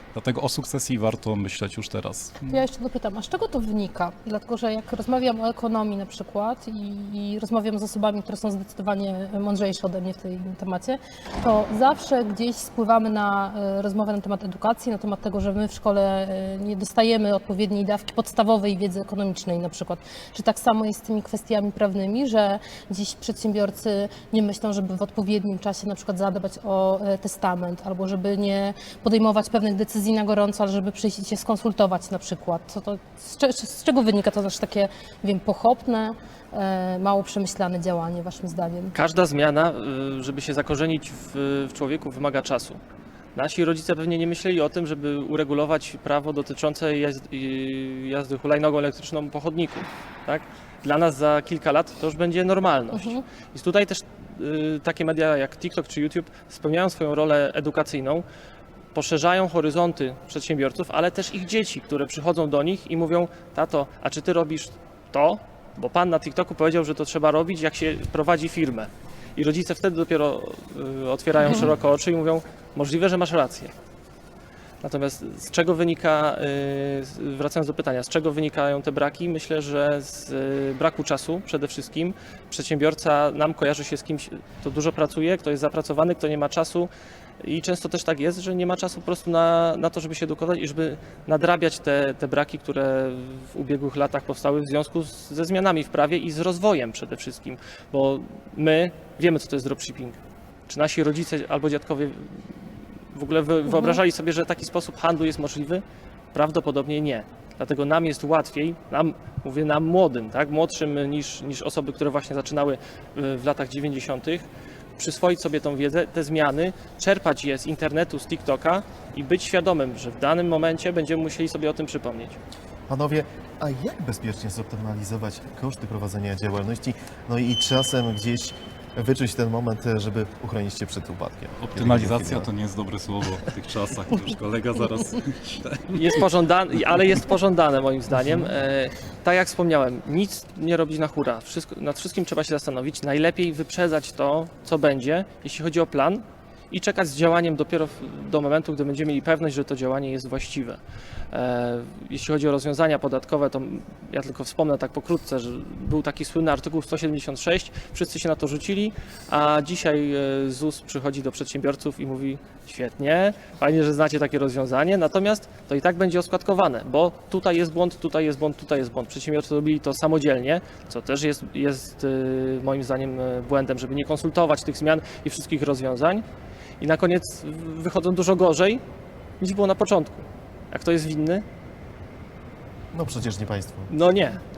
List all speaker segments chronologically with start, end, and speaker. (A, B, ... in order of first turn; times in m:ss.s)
0:00.1-0:02.6 A
0:02.4-0:39.0 B
0:38.9-0:42.8 C
0:43.4-0:58.2 C
0:52.9-0:53.2 B
0:58.9-1:13.7 C
1:14.8-1:26.9 C
1:27.4-1:40.2 C
1:40.7-1:42.6 C
1:43.1-1:45.8 C
1:43.7-1:44.0 B
1:46.3-2:02.4 C
2:02.9-2:12.5 D
2:11.6-2:16.2 A
2:15.9-2:56.2 C
2:56.8-2:58.8 C
2:59.4-3:01.4 C
3:02.9-3:03.9 D
3:03.9-3:04.4 C